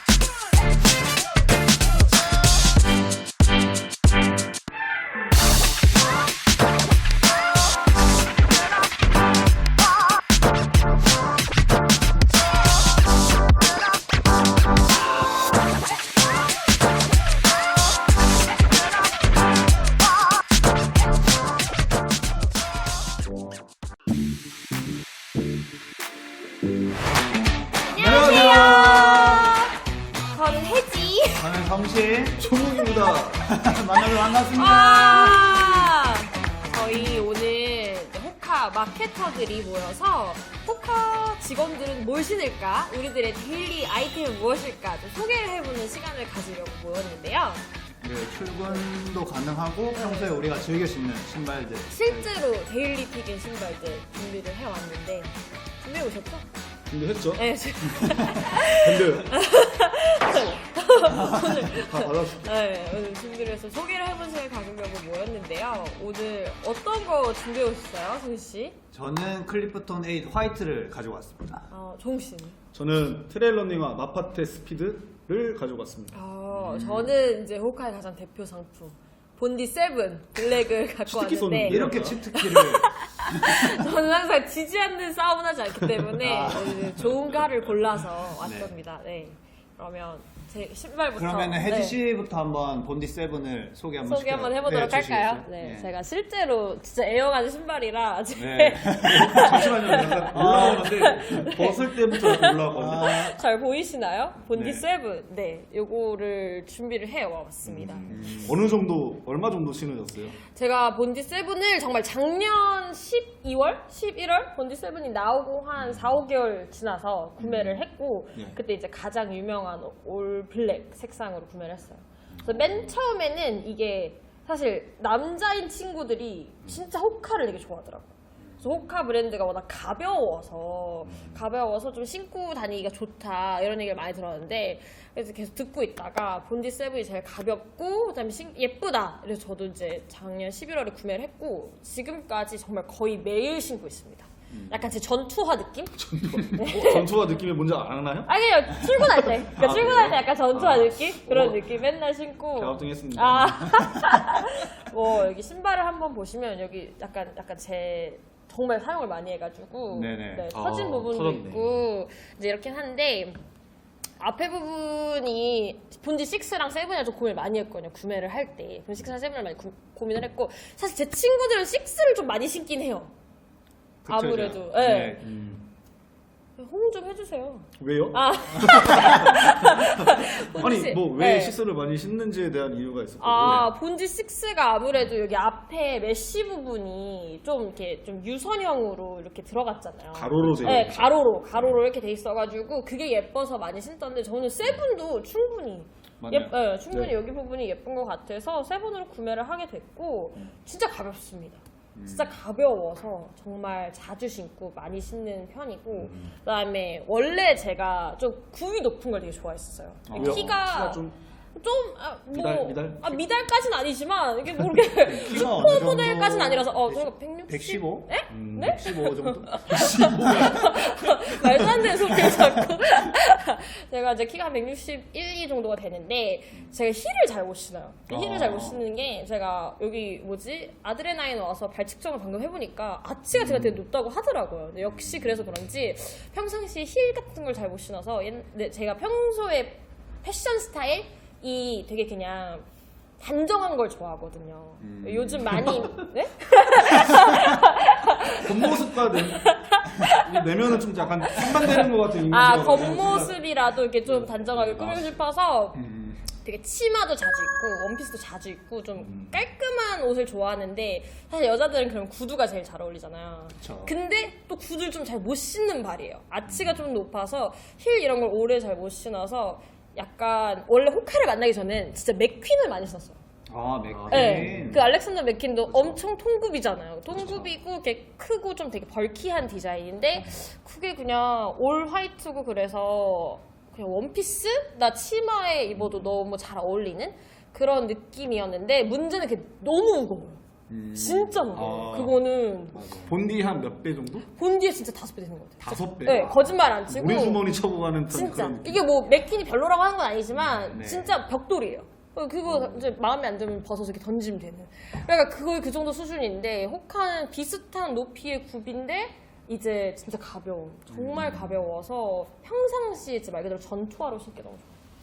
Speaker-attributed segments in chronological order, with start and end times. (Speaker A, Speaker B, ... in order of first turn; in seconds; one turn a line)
Speaker A: 27.9-29.7
Speaker B: 28.0-29.5
Speaker C: 28.0-28.7
Speaker A: 30.3-31.5
Speaker C: 31.4-32.5
Speaker B: 32.4-33.5
Speaker C: 33.3-35.7
Speaker A: 34.3-47.6
Speaker C: 48.0-52.3
Speaker A: 49.9-50.4
Speaker A: 51.9-56.5
Speaker B: 56.9-57.4
Speaker A: 57.4-68.8
Speaker B: 58.5-59.4
Speaker B: 61.5-62.5
Speaker C: 68.9-71.7
Speaker A: 71.7-72.6
Speaker B: 72.7-77.1
Speaker A: 76.1-81.8
Speaker B: 81.0-82.2
Speaker C: 81.7-83.6
Speaker A: 82.3-92.0
Speaker C: 86.2-87.2
Speaker C: 88.4-88.7
Speaker C: 91.2-95.9
Speaker A: 94.0-108.0
Speaker C: 98.4-101.5
Speaker B: 99.0-103.2
Speaker C: 102.6-103.4
Speaker C: 104.5-104.8
Speaker B: 107.7-110.4
Speaker C: 108.1-108.6
Speaker A: 110.5-146.0
Speaker B: 115.8-116.2
Speaker B: 117.4-117.8
Speaker B: 122.3-122.9
Speaker B: 145.9-148.3
Speaker A: 146.5-147.1
Speaker A: 148.3-163.4
Speaker B: 148.9-151.6
Speaker B: 152.6-154.1
Speaker C: 159.9-160.5
Speaker B: 160.5-161.8
Speaker A: 164.2-173.1
Speaker C: 174.1-175.3
Speaker A: 174.1-175.2
Speaker B: 175.2-175.7
Speaker A: 176.6-181.6
Speaker B: 177.8-183.7
Speaker A: 183.2-211.0
Speaker B: 190.1-191.8
Speaker B: 196.2-197.2
Speaker C: 201.9-202.3
Speaker B: 205.9-206.3
Speaker C: 210.1-210.6
Speaker B: 210.1-211.2
Speaker A: 211.6-242.7
Speaker B: 212.3-213.2
Speaker C: 215.1-218.1
Speaker B: 218.3-218.9
Speaker C: 218.6-220.7
Speaker B: 219.7-220.7
Speaker B: 221.6-221.9
Speaker B: 228.1-228.8
Speaker B: 233.3-233.8
Speaker A: 243.2-250.5
Speaker C: 244.8-246.0
Speaker B: 248.3-249.5
Speaker B: 250.1-253.4
Speaker A: 251.3-273.2
Speaker B: 254.1-255.2
Speaker C: 255.8-256.2
Speaker B: 259.0-259.4
Speaker C: 263.6-263.9
Speaker C: 273.5-274.8
Speaker B: 273.9-274.8
Speaker A: 274.1-290.4
Speaker B: 275.7-276.0
Speaker B: 277.1-277.5
Speaker C: 290.7-291.4
Speaker A: 290.9-292.9
Speaker B: 291.5-292.2
Speaker C: 292.8-293.1
Speaker B: 292.8-294.3
Speaker A: 294.3-314.7
Speaker B: 295.6-298.8
Speaker B: 300.4-300.8
Speaker C: 300.7-301.1
Speaker B: 310.9-311.5